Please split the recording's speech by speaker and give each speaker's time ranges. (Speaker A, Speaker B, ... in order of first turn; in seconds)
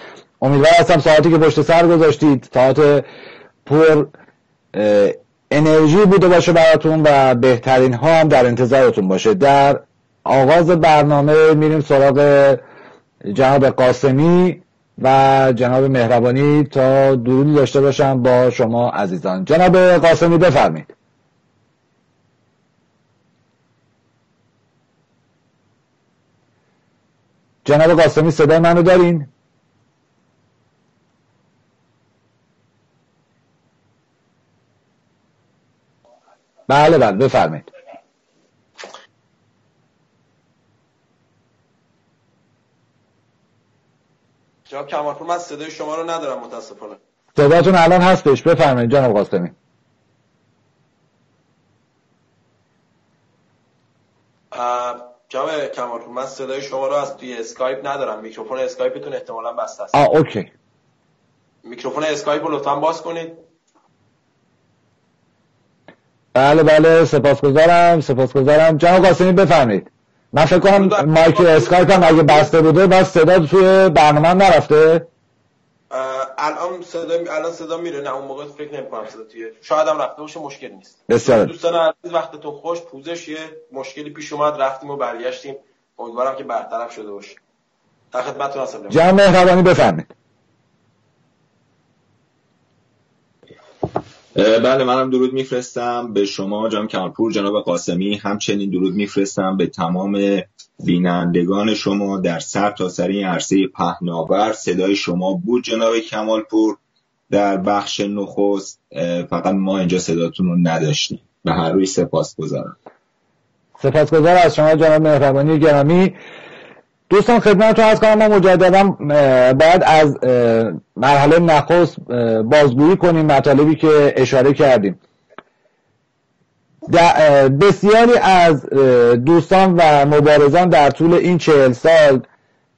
Speaker A: 0.4-3.1, 3.7-4.1, 4.7-12.6, 13.3-20.9, 27.6-29.3, 36.7-37.7, 47.4-49.5, 59.9-60.5, 66.3-75.1, 81.1-81.5, 88.9-90.1, 113.8-116.2, 117.1-125.0, 126.9-132.3
Speaker B: 44.7-47.0, 54.5-60.0, 61.6-63.4, 70.7-72.5, 75.9-87.4, 88.1-89.0
Speaker C: 94.4-112.8